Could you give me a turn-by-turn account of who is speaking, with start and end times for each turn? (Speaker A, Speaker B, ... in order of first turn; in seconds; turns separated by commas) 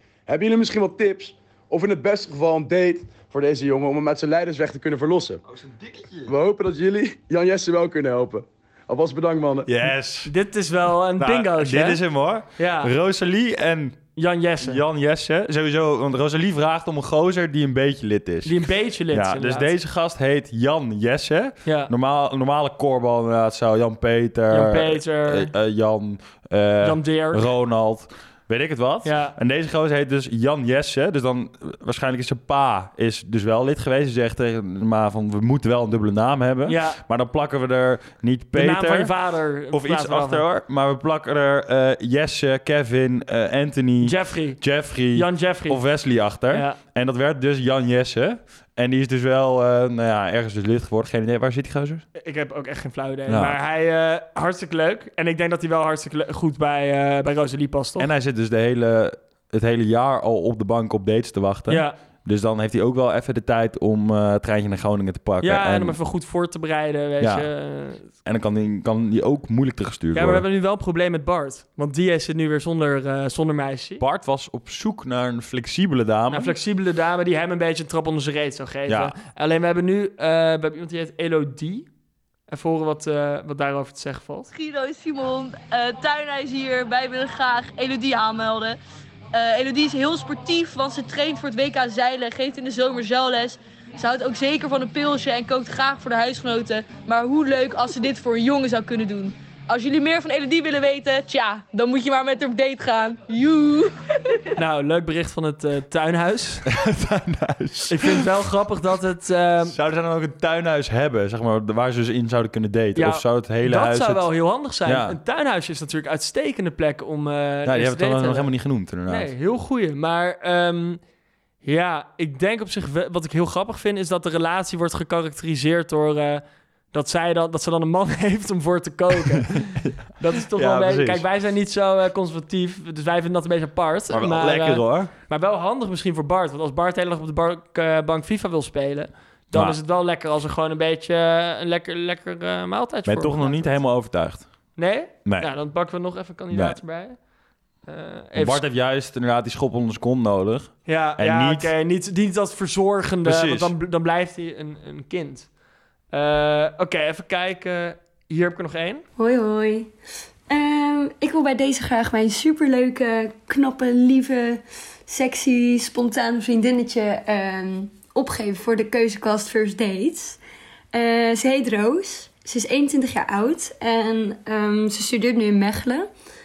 Speaker A: 0.3-5.4, Speaker B: 5.7-6.3, Speaker A: 6.3-9.7, Speaker B: 9.7-10.3, Speaker C: 10.2-12.0, Speaker B: 11.2-14.0, Speaker C: 12.6-12.9, Speaker C: 14.2-14.8, Speaker B: 14.6-39.1, Speaker C: 18.4-19.7, Speaker C: 21.6-21.9, Speaker C: 24.5-25.5, Speaker C: 26.8-27.5, Speaker C: 29.1-29.4, Speaker C: 36.7-37.0, Speaker C: 38.5-40.5, Speaker B: 39.7-52.0, Speaker C: 44.0-45.8, Speaker C: 46.5-46.8, Speaker C: 52.2-58.1, Speaker B: 53.3-53.6, Speaker B: 58.0-66.0, Speaker C: 61.7-62.0, Speaker C: 65.4-68.1, Speaker B: 67.2-67.5, Speaker B: 68.2-70.5, Speaker C: 70.1-74.0, Speaker B: 74.0-76.5, Speaker C: 76.3-81.9, Speaker B: 78.9-79.2, Speaker C: 82.5-84.5, Speaker D: 84.5-88.8, Speaker D: 89.3-104.3, Speaker C: 104.6-106.7, Speaker B: 106.7-108.3, Speaker C: 107.9-109.8, Speaker B: 109.7-114.3, Speaker C: 113.0-118.5, Speaker B: 114.8-115.2, Speaker B: 117.7-119.3, Speaker C: 119.1-121.0, Speaker C: 121.6-143.8, Speaker B: 129.4-131.3, Speaker B: 134.1-135.1, Speaker B: 139.5-139.8, Speaker B: 143.1-144.5, Speaker C: 144.8-147.2, Speaker B: 145.2-145.5, Speaker B: 146.5-146.8, Speaker C: 147.9-148.6, Speaker B: 148.3-151.7, Speaker C: 150.9-155.5, Speaker B: 153.2-153.7, Speaker C: 156.1-159.1, Speaker E: 159.2-159.9, Speaker E: 160.5-170.4, Speaker E: 170.9-176.1